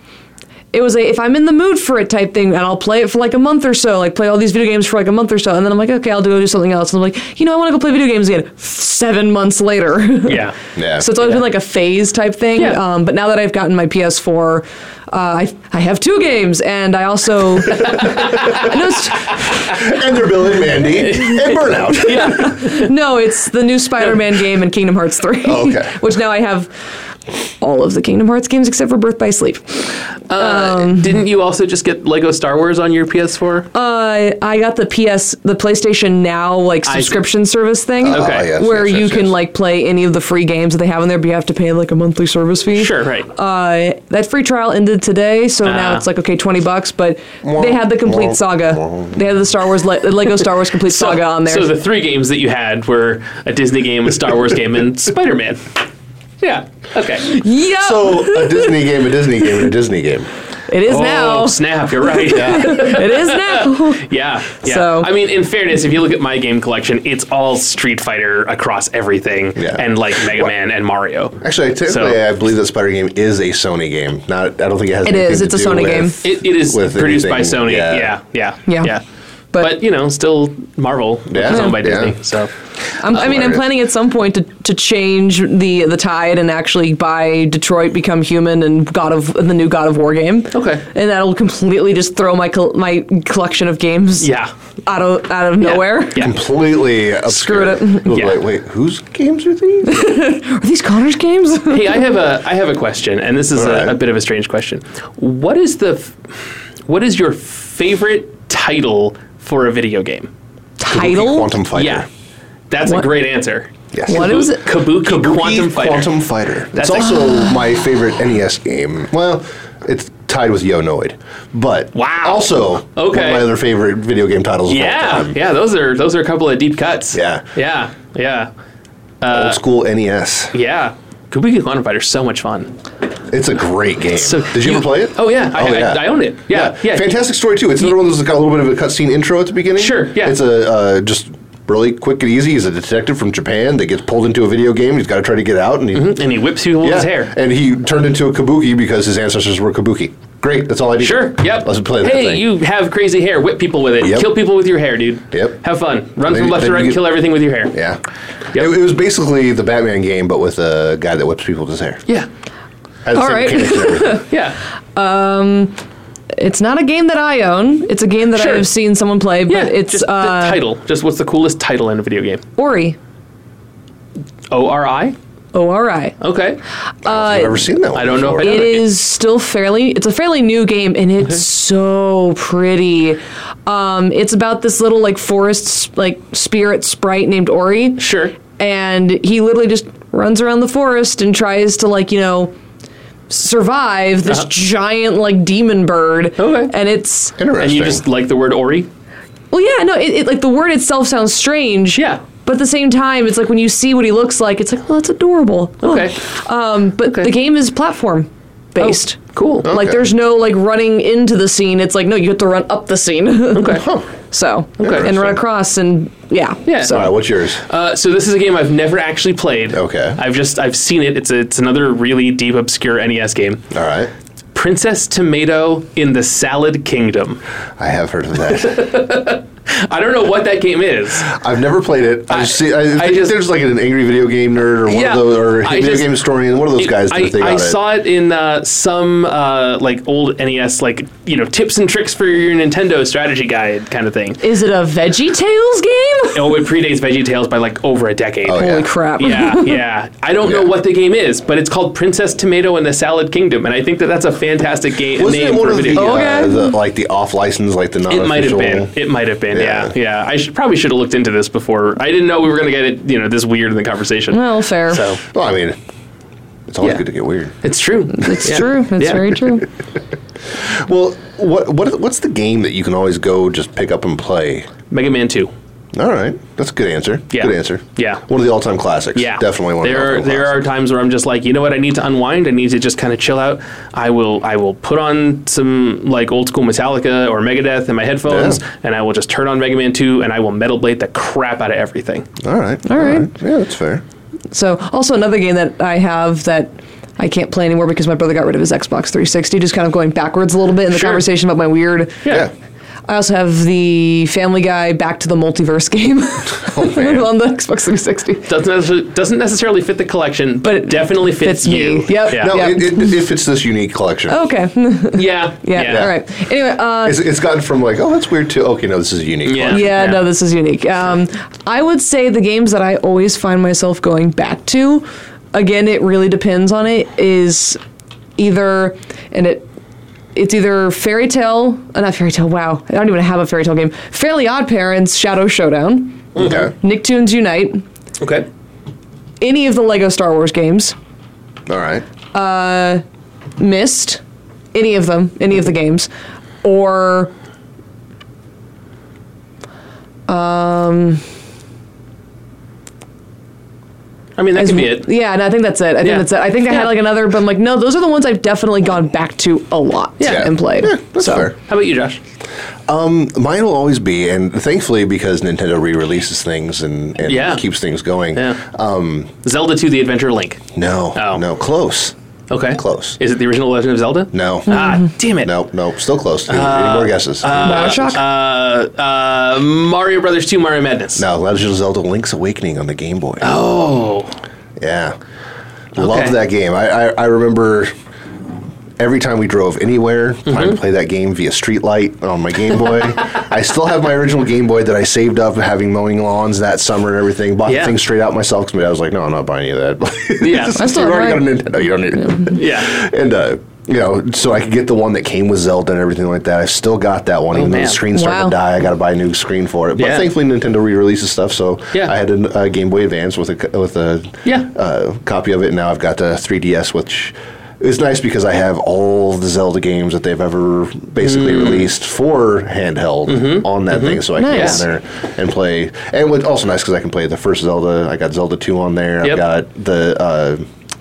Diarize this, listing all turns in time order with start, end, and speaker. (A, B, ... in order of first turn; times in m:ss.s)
0:00.7-0:19.4 A
0:10.3-0:10.6 B
0:10.8-0:11.1 C
0:19.6-0:22.6 C
0:21.0-0:22.9 B
0:22.1-0:26.7 A
0:25.4-0:26.0 C
0:27.6-0:31.2 A
0:30.3-0:33.7 B
0:33.7-0:51.7 A
0:36.9-0:37.2 B
0:38.0-0:39.3 C
0:38.1-0:38.5 B
0:42.8-0:43.3 B
0:45.6-0:46.0 B
0:47.4-0:49.2 C
0:50.9-0:55.6 B
0:56.4-0:57.4 B
0:57.2-0:58.8 A
0:57.8-1:00.3 C
1:00.7-1:04.1 A
1:00.9-1:12.2 B
1:02.3-1:02.9 C
1:04.6-1:05.1 A
1:09.6-1:10.5 C
1:11.4-1:18.2 C
1:15.0-1:16.2 A
1:16.2-1:19.0 B
1:18.7-1:18.9 A
1:19.6-1:22.5 B
1:21.3-1:22.2 C
1:23.0-1:34.3 A
1:23.1-1:23.6 C
1:30.5-1:30.8 B
1:34.2-1:34.5 B
1:34.9-1:36.3 A
1:35.6-1:36.4 B
1:36.2-1:40.1 C
1:37.3-1:38.1 A
1:38.1-1:38.4 B
1:39.8-1:42.0 A
1:41.7-1:46.3 B
1:43.6-1:44.0 C
1:46.9-1:50.3 B
1:50.8-1:51.5 A
1:50.9-1:52.1 C
1:51.8-1:52.1 B
1:52.7-1:56.1 B
1:53.9-2:05.4 C
1:54.1-1:54.7 A
1:56.7-1:57.4 B
2:02.0-2:03.5 B
2:04.7-2:08.5 B
2:07.1-2:07.4 C
2:09.2-2:09.6 B
2:09.3-2:10.5 C
2:10.5-2:12.7 B
2:13.3-2:26.2 C
2:14.2-2:17.1 B
2:19.8-2:20.4 B
2:25.9-2:27.3 B
2:26.8-2:32.4 C
2:31.0-2:37.8 B
2:34.0-2:34.3 C
2:36.3-2:37.0 C
2:37.7-2:38.0 C
2:38.5-2:42.0 C
2:43.0-2:44.2 C
2:43.1-2:44.3 A
2:44.3-2:44.6 B
2:45.0-2:45.8 A
2:46.4-2:50.6 A
2:48.4-2:48.7 B
2:49.5-2:52.4 B
2:52.6-2:53.0 A
2:54.5-2:55.2 B
2:55.5-2:56.2 A
2:56.2-2:56.6 B
2:57.0-2:57.7 A
2:57.0-2:58.8 C
2:57.9-2:58.9 B
2:58.4-3:12.5 A
3:08.0-3:08.3 B
3:13.3-3:17.4 A
3:16.4-3:16.7 B
3:17.4-3:18.0 C
3:17.6-3:18.9 B
3:19.5-3:37.2 A
3:25.8-3:26.2 B
3:27.0-3:27.3 B
3:28.8-3:29.7 B
3:29.6-3:30.0 C
3:33.6-3:33.9 B
3:33.8-3:34.1 C
3:34.8-3:35.1 B
3:34.8-3:35.4 C
3:36.7-3:37.1 B
3:36.9-3:37.6 C
3:37.6-3:43.7 B
3:39.7-3:40.2 C
3:43.7-3:44.1 C
3:44.5-3:47.4 B
3:47.8-3:48.9 C
3:48.5-3:51.4 B
3:51.3-3:57.8 C
3:52.3-3:53.4 B
3:54.9-3:56.1 B
3:56.8-4:04.4 B
4:04.4-4:06.6 A
4:06.3-4:16.4 B
4:08.4-4:08.9 C
4:08.5-4:09.8 A
4:10.4-4:10.7 C
4:15.2-4:18.9 C
4:16.0-4:16.7 A
4:18.1-4:25.2 B
4:19.5-4:19.9 C
4:24.3-4:25.1 A
4:25.3-4:25.8 C
4:26.7-4:27.6 C
4:27.6-4:29.4 B
4:28.1-4:29.7 A
4:30.5-4:34.7 C
4:34.9-4:35.5 B
4:35.9-4:40.7 C
4:37.3-4:38.2 B
4:39.2-4:52.3 B
4:48.3-4:48.6 C
4:52.4-4:54.0 C
4:52.9-4:53.3 A
4:54.5-5:02.4 A
5:00.9-5:01.2 B
5:03.1-5:08.5 A
5:06.6-5:07.3 C
5:08.5-5:12.6 B
5:10.6-5:13.2 A
5:12.3-5:14.4 C
5:14.3-5:17.2 A
5:15.2-5:16.1 B
5:15.8-5:16.1 C
5:17.0-5:19.9 C
5:19.4-5:20.2 B
5:19.7-5:27.8 A
5:28.4-5:29.7 A
5:30.4-5:37.8 A
5:36.4-5:36.7 C
5:38.2-5:38.5 B
5:39.4-5:41.0 A
5:41.7-5:42.0 C
5:42.3-5:43.0 A
5:43.6-5:44.2 A
5:44.7-5:46.1 A
5:46.6-5:47.3 A
5:50.3-5:51.2 A
5:54.4-5:55.1 B
5:54.6-6:01.5 A
5:56.0-5:56.9 B
6:00.2-6:00.5 B
6:00.2-6:01.6 C
6:01.6-6:02.2 B
6:02.9-6:09.3 C
6:07.2-6:07.7 B
6:09.4-6:11.4 B
6:10.8-6:12.2 C
6:12.5-6:15.5 B
6:12.7-6:13.2 C
6:14.3-6:18.2 C
6:14.7-6:15.0 A
6:16.5-6:21.2 B
6:17.6-6:18.2 A
6:21.2-6:23.7 C
6:23.4-6:24.3 B
6:24.8-6:25.2 C
6:26.0-6:27.9 C
6:26.0-6:26.4 B
6:29.0-7:10.6 C
6:30.5-6:30.8 B
6:37.7-6:38.0 B
6:40.4-6:40.9 B
6:40.8-6:41.5 A
6:42.5-6:42.9 B
6:47.5-6:48.0 B
6:48.1-6:48.6 A
6:50.0-6:50.3 B
7:01.2-7:01.9 B
7:03.3-7:04.8 B
7:04.4-7:04.8 A